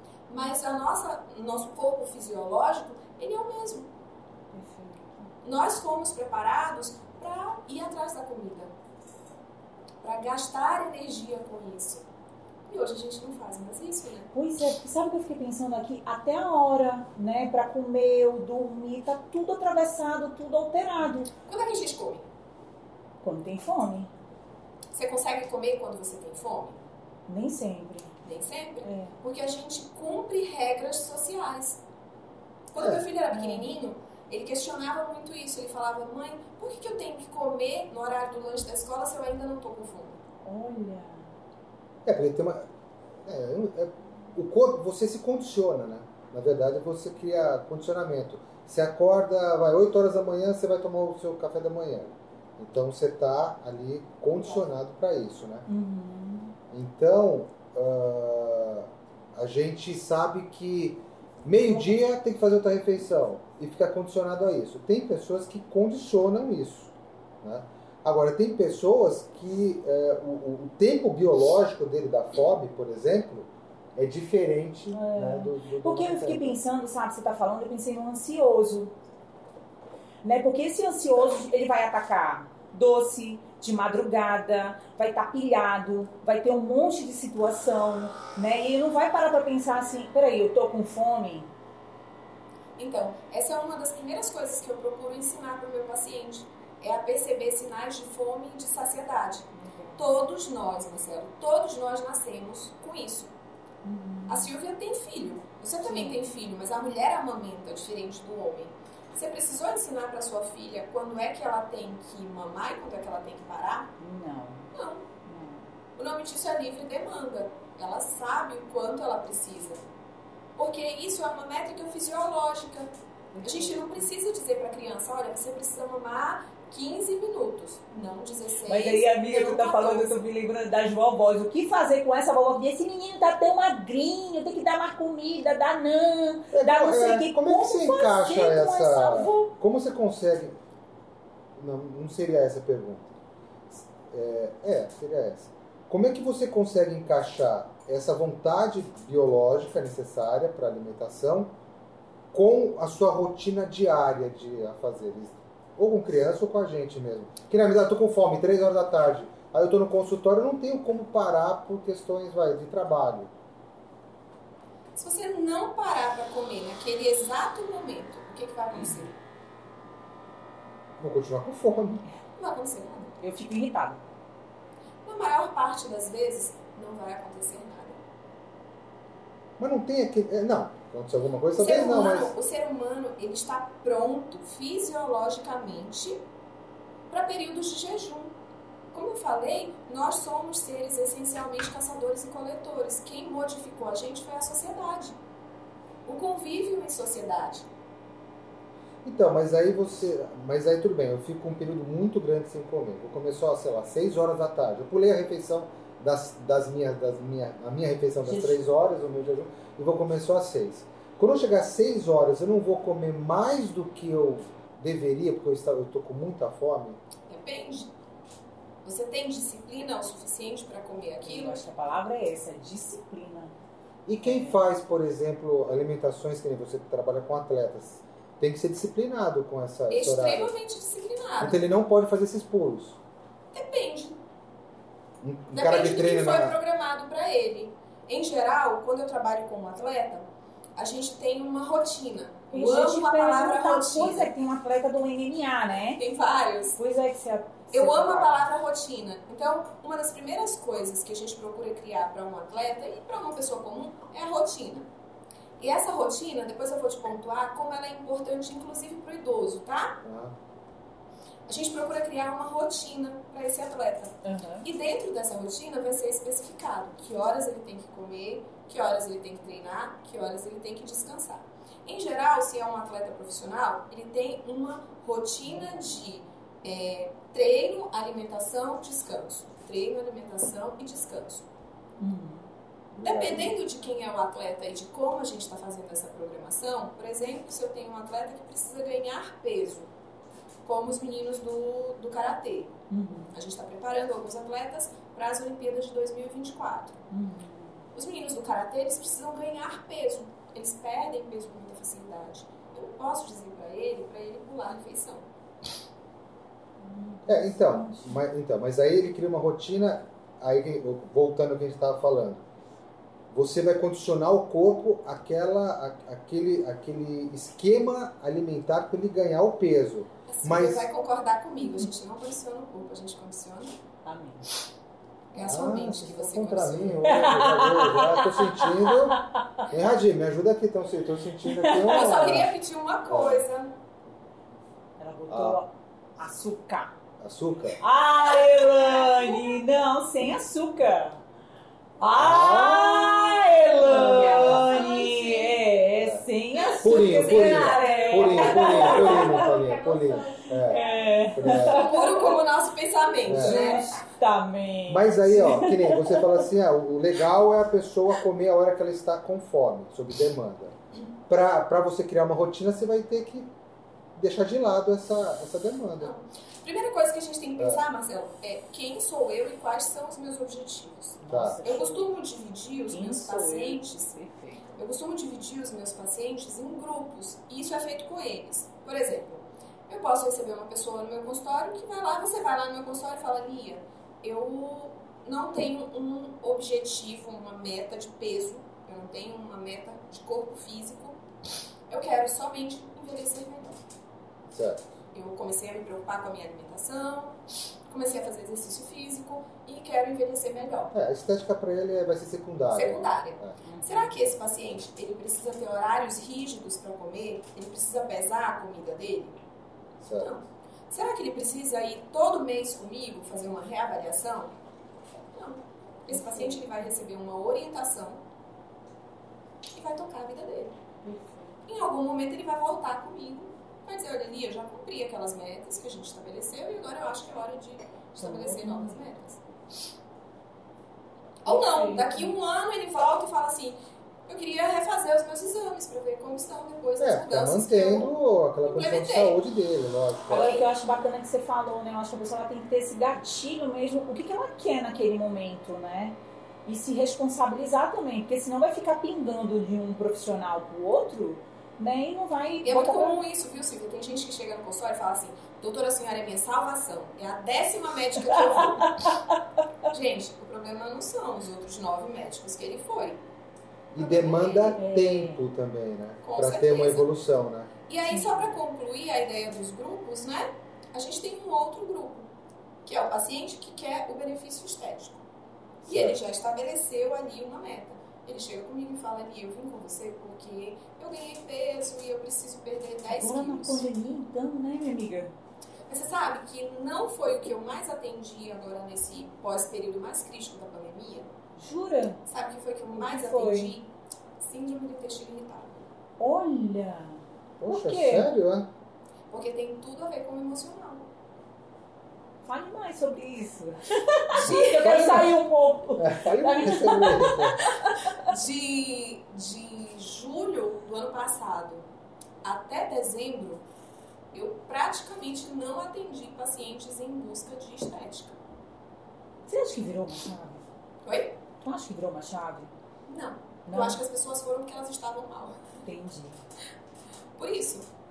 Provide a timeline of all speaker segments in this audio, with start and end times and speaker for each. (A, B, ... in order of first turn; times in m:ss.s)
0:00.3-0:03.9 A
0:04.5-0:05.3 B
0:05.4-0:08.7 A
0:10.0-0:12.1 A
0:12.7-0:14.3 A
0:14.3-0:21.3 B
0:21.5-0:22.3 A
0:23.2-0:24.1 B
0:24.9-0:26.8 A
0:27.3-0:28.1 B
0:28.2-0:31.8 A
0:28.8-0:29.2 B
0:32.7-0:40.2 A
0:32.8-0:33.0 C
0:33.3-0:33.7 B
0:40.4-0:41.3 B
0:42.0-0:42.6 C
0:43.2-0:55.7 C
0:55.7-0:56.5 B
0:56.7-1:16.6 C
1:01.7-1:02.0 B
1:14.9-1:18.9 B
1:20.2-1:31.5 B
1:32.8-1:43.3 A
1:39.6-1:40.1 B
1:43.8-1:44.5 B
1:44.3-1:53.9 A
1:45.8-1:46.2 B
1:54.0-1:54.7 B
1:54.7-1:55.1 A
1:55.2-1:55.7 B
1:56.0-1:59.8 A
2:00.6-2:02.9 A
2:03.3-2:04.1 B
2:03.4-2:10.3 A
2:08.7-2:19.5 B
2:16.5-2:20.6 C
2:21.6-2:23.1 C
2:23.7-2:31.5 C
2:32.3-2:43.3 C
2:45.0-2:49.2 A
2:51.0-2:52.0 C
2:52.4-2:53.2 A
2:53.2-2:54.0 B
2:55.0-2:58.0 A
2:59.6-3:02.3 C
3:01.6-3:06.2 A
3:07.1-3:08.3 A
3:08.9-3:15.2 A
3:16.1-3:17.7 A
3:19.0-3:37.0 C
3:28.2-3:28.6 B
3:37.3-3:37.9 A
3:38.8-3:41.6 A
3:41.2-3:43.5 B
3:44.1-3:50.5 C
3:44.2-3:44.6 B
3:49.9-3:51.6 A
3:51.4-3:53.0 C
3:53.5-3:54.2 A
3:55.2-3:56.6 C
3:55.5-4:00.2 A
4:00.8-4:04.3 A
4:02.5-4:06.0 B
4:06.0-4:06.8 A
4:06.8-4:08.4 B
4:07.7-4:14.9 A
4:15.6-4:20.0 A
4:20.0-4:20.3 C
4:21.5-4:41.5 A
4:24.2-4:24.7 B
4:42.0-4:42.5 B
4:43.0-4:43.5 C
4:43.0-4:49.9 A
4:50.6-4:52.8 A
4:52.9-4:53.3 B
4:53.3-4:57.0 A
4:57.1-4:57.8 B
4:57.9-5:05.3 A
5:06.8-5:08.2 B
5:07.3-5:12.4 C
5:13.3-5:20.9 C
5:20.3-5:23.8 A
5:24.0-5:24.5 B
5:25.3-5:27.2 A
5:25.4-5:32.5 C
5:27.0-5:29.7 B
5:31.5-5:32.5 B
5:31.9-5:33.8 A
5:33.1-5:33.4 C
5:35.0-5:36.9 B
5:35.3-5:35.6 C
5:37.2-5:37.8 C
5:37.8-5:41.2 B
5:38.7-5:39.5 A
5:42.0-5:49.5 B
5:42.2-5:43.2 C
5:43.8-5:44.8 C
5:43.8-5:45.6 A
5:46.0-5:46.2 C
5:46.6-5:53.9 A
5:46.8-5:52.0 C
5:50.7-5:52.4 B
5:53.2-5:53.7 C
5:53.3-5:56.5 B
5:54.9-6:00.8 C
6:01.3-6:03.5 C
6:04.2-6:06.1 C
6:06.0-6:14.2 A
6:11.2-6:12.1 B
6:11.3-6:11.6 C
6:12.9-6:14.7 B
6:14.8-6:31.2 A
6:31.9-6:33.8 A
6:34.5-6:34.9 C
6:35.1-6:37.4 A
6:37.9-6:40.9 A
6:40.9-6:43.6 C
6:42.7-6:49.4 A
6:43.6-6:44.2 B
6:50.0-6:50.4 C
6:50.2-6:54.6 A
6:55.3-6:58.2 A
6:56.1-6:56.7 B
6:59.7-7:00.8 A
7:01.0-7:01.6 B
7:01.7-7:09.4 A
7:08.2-7:09.0 B
7:11.4-7:19.4 A
7:11.5-7:12.3 B
7:17.0-7:20.6 C
7:20.3-7:33.2 B
7:32.6-7:39.2 A
7:38.3-7:39.4 B
7:39.9-7:43.2 A
7:43.9-7:47.7 C
7:44.0-7:44.8 A
7:44.7-7:45.4 B
7:46.2-7:47.1 A
7:47.9-7:52.3 A
7:48.1-7:48.5 B
7:52.8-7:55.2 A
7:55.8-7:56.2 C
7:55.8-8:03.8 A
8:03.1-8:05.3 B
8:05.9-8:11.3 A
8:11.6-8:12.2 B
8:12.3-8:15.9 A
8:13.0-8:13.8 B
8:16.2-8:18.3 B
8:17.6-8:18.7 C
8:19.3-8:21.1 A
8:22.4-8:28.3 B
8:24.3-8:25.2 A
8:24.8-8:25.3 C
8:26.0-8:27.6 C
8:27.7-8:31.8 A
8:32.4-8:33.6 A
8:34.3-8:38.4 A
8:39.5-8:40.6 B
8:41.0-8:41.4 A
8:41.6-8:42.7 B
8:43.1-8:45.8 A
8:43.7-8:44.0 B
8:45.8-8:46.4 B
8:47.4-8:47.9 A